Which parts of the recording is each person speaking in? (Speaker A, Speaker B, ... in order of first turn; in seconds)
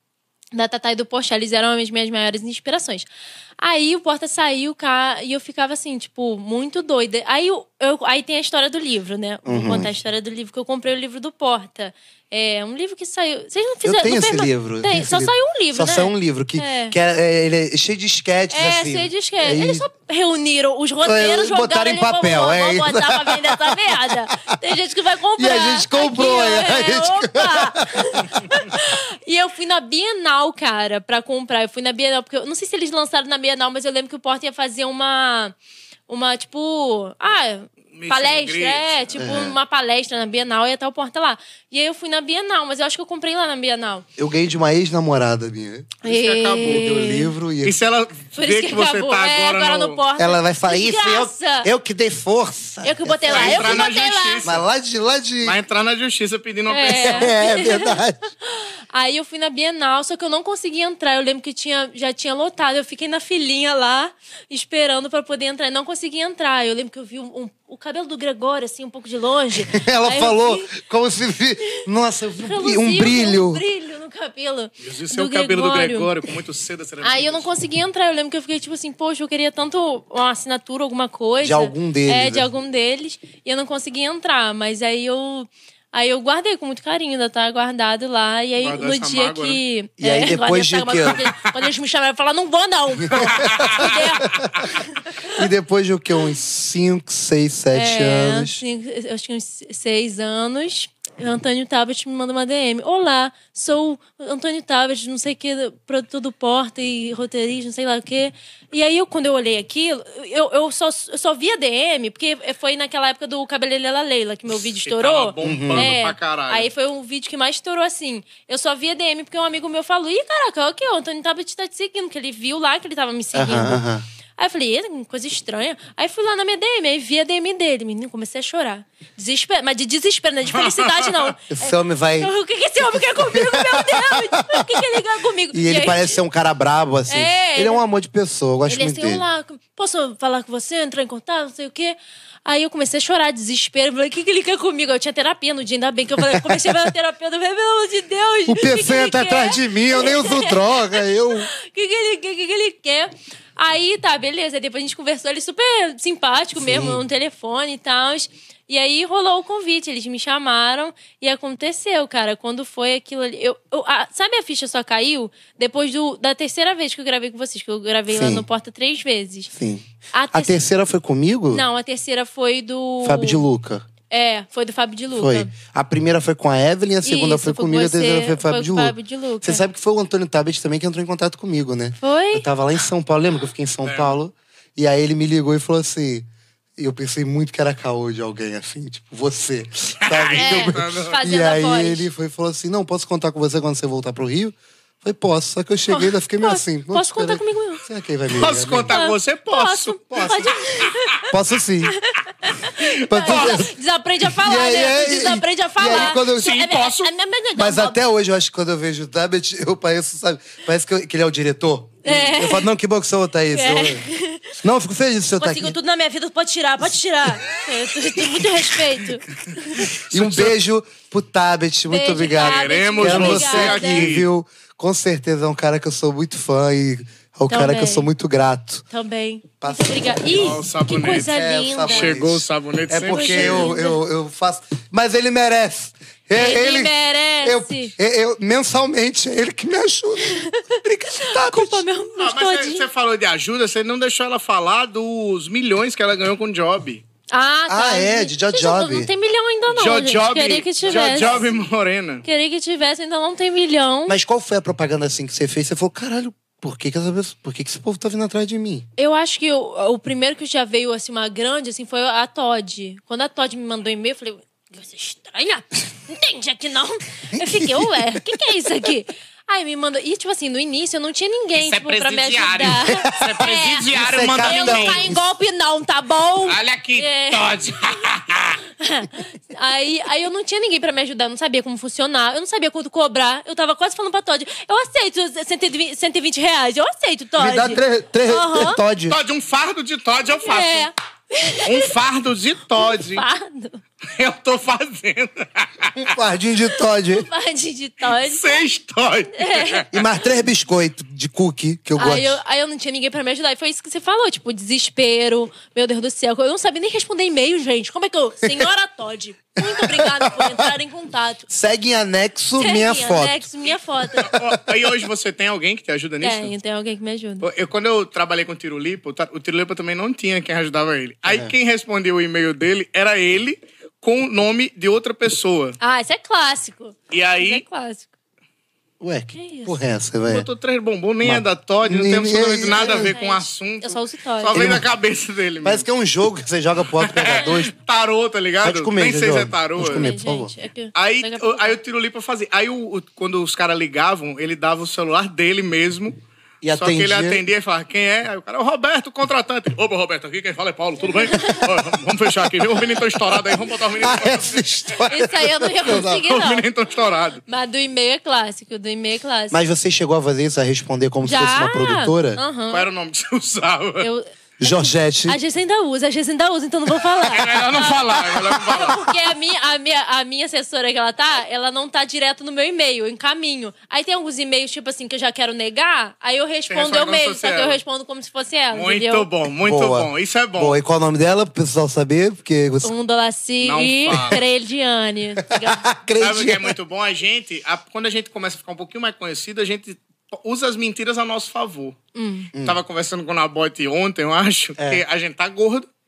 Speaker A: 0.5-3.1, 3.6-16.9, 18.5-35.5, 36.1-44.1, 46.0-47.3, 48.4-51.7, 52.8-54.5, 56.7-70.7, 72.4-76.1, 77.0-95.4, 97.7-123.8, 124.4-136.2, 137.1-137.8, 138.7-169.5, 170.1-170.6, 171.5-173.5, 174.1-175.5, 177.0-179.6, 182.0-182.4, 190.4-192.1, 195.9-197.8, 198.9-201.3, 201.8-208.0, 212.1-212.7, 213.5-214.6, 215.4-219.9, 221.9-224.1, 227.5-228.1, 228.9-232.2, 233.1-234.0, 236.3-237.9, 240.2-242.9, 247.3-251.5, 252.2-254.2, 259.0-277.7, 278.8-288.8, 290.4-291.9, 292.8-293.8, 297.1-298.6, 299.4-299.9, 302.0-311.5, 312.6-314.4, 316.2-317.5, 325.8-328.1, 329.3-329.8, 332.6-334.6, 339.8-341.8, 351.1-351.7, 355.0-356.7, 357.5-359.6, 361.2-362.9, 364.0-379.3, 382.8-385.9, 392.1-392.5
Speaker B: 9.4-9.9, 13.8-19.9, 21.0-24.5, 25.4-28.2, 39.2-39.6, 44.2-45.9, 46.6-47.8, 50.2-53.9, 54.4-55.6, 56.9-58.3, 69.7-73.6, 81.4-82.5, 90.0-91.2, 93.0-94.7, 95.3-98.6, 115.4-115.9, 123.3-124.0, 131.5-132.3, 132.9-134.8, 135.5-139.2, 146.2-146.9, 148.5-151.5, 156.6-157.0, 168.1-168.4, 169.5-171.6, 173.0-173.8, 175.1-186.3, 186.8-199.0, 201.3-202.0, 203.0-203.7, 204.2-206.6, 207.6-214.1, 214.6-215.7, 220.1-228.8, 229.6-230.2, 231.1-241.8, 247.7-249.1, 250.8-251.5, 254.1-258.9, 267.3-268.4, 272.7-273.4, 273.9-275.2, 287.4-289.2, 295.9-297.3, 299.9-302.4, 309.6-310.7, 311.5-313.4, 314.3-314.6, 321.3-321.5, 329.0-330.5, 331.2-333.2, 334.5-334.9, 335.6-337.7, 338.6-340.5, 346.6-347.4, 354.0-356.2, 359.5-362.4, 364.6-365.4, 379.6-382.9, 384.1-384.4, 385.5-386.8, 392.5-392.8
Speaker C: 37.9-39.1, 46.0-46.9, 47.6-50.0, 53.3-54.6, 55.4-57.3, 74.8-77.5, 88.6-89.6, 93.2-94.0, 114.8-116.7, 130.5-131.3, 183.8-184.2, 190.0-191.2, 198.3-200.9, 202.8-203.6, 205.9-207.1, 219.8-220.6, 222.3-224.3, 230.3-233.7, 242.2-247.0, 249.7-252.2, 271.5-275.1, 276.4-278.6, 289.1-290.9, 291.6-293.2, 294.1-296.1, 298.1-299.9, 314.2-316.5, 317.4-325.8, 327.1-327.6, 330.3-335.9, 336.9-340.1, 340.9-346.2, 346.7-354.6, 356.0-357.4, 362.7-364.1, 367.3-369.1, 376.7-377.8, 378.7-380.8, 383.6-384.4, 386.2-392.0, 392.6-395.9